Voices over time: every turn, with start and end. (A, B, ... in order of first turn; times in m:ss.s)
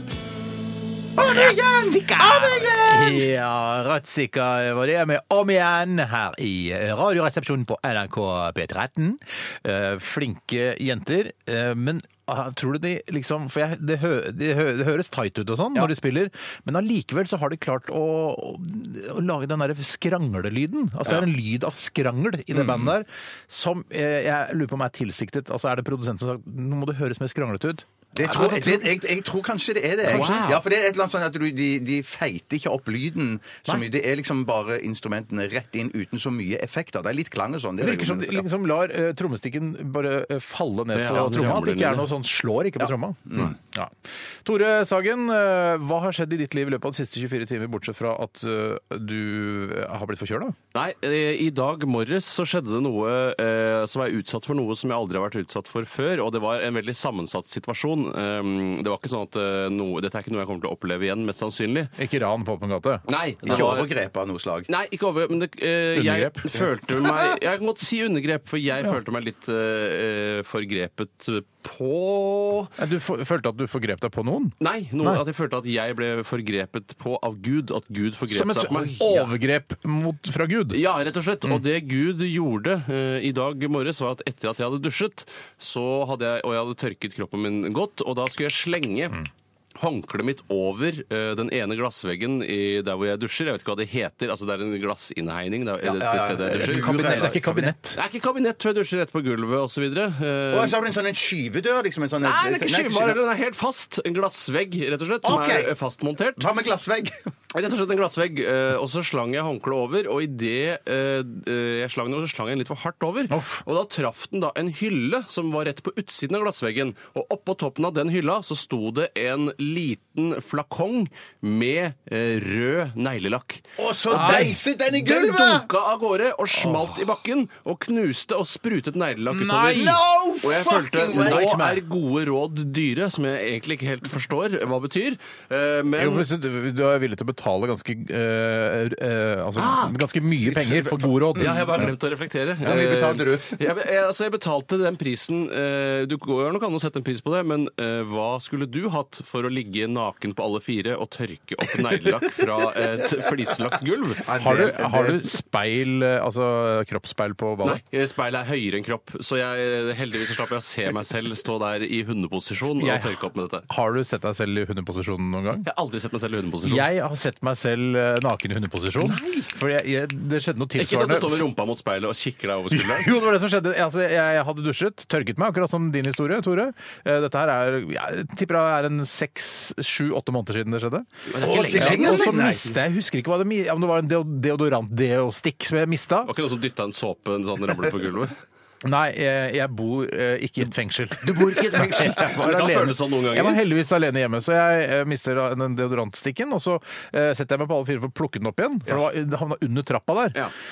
0:01.2-0:03.2 A
0:01.2-0:29.0 B
0:22.5-0:22.9 A
0:28.2-0:38.4 A
0:30.0-0:30.6 B
0:30.1-0:30.6 C
0:37.8-0:50.6 B
0:40.9-0:42.1 C
0:42.8-0:43.6 A
0:50.7-1:01.9 C
1:02.0-1:03.8 B
1:03.1-1:03.9 C
1:03.4-1:04.7 A
1:04.7-1:12.7 C
1:05.9-1:06.7 B
1:12.8-1:15.2 B
1:14.6-1:19.3 C
1:18.3-1:20.8 B
1:18.7-1:19.0 A
1:20.7-1:29.2 C
1:29.8-1:37.3 C
1:35.8-1:37.7 A
1:36.4-1:38.0 B
1:37.9-1:40.8 C
1:40.5-1:43.2 A
1:42.2-1:46.4 C
1:45.2-1:45.7 A
1:46.4-1:47.3 A
1:47.5-2:16.3 C
1:53.3-1:53.6 B
2:03.8-2:05.7 A
2:04.1-2:04.6 B
2:09.3-2:10.0 B
2:09.7-2:11.7 A
2:11.0-2:11.8 B
2:16.0-2:21.9 B
2:19.6-2:19.9 C
2:20.4-2:21.9 A
2:21.4-2:34.3 C
2:22.6-2:23.6 A
2:34.2-2:35.3 A
2:34.4-2:37.8 B
2:37.6-2:43.6 C
2:42.8-2:45.6 B
2:45.6-2:46.9 C
2:46.6-2:51.5 B
2:49.0-2:49.5 C
2:50.8-2:53.2 C
2:52.7-3:06.3 B
3:01.3-3:02.5 C
3:01.4-3:02.7 A
3:06.2-3:08.3 C
3:08.8-3:20.4 B
3:11.2-3:13.6 C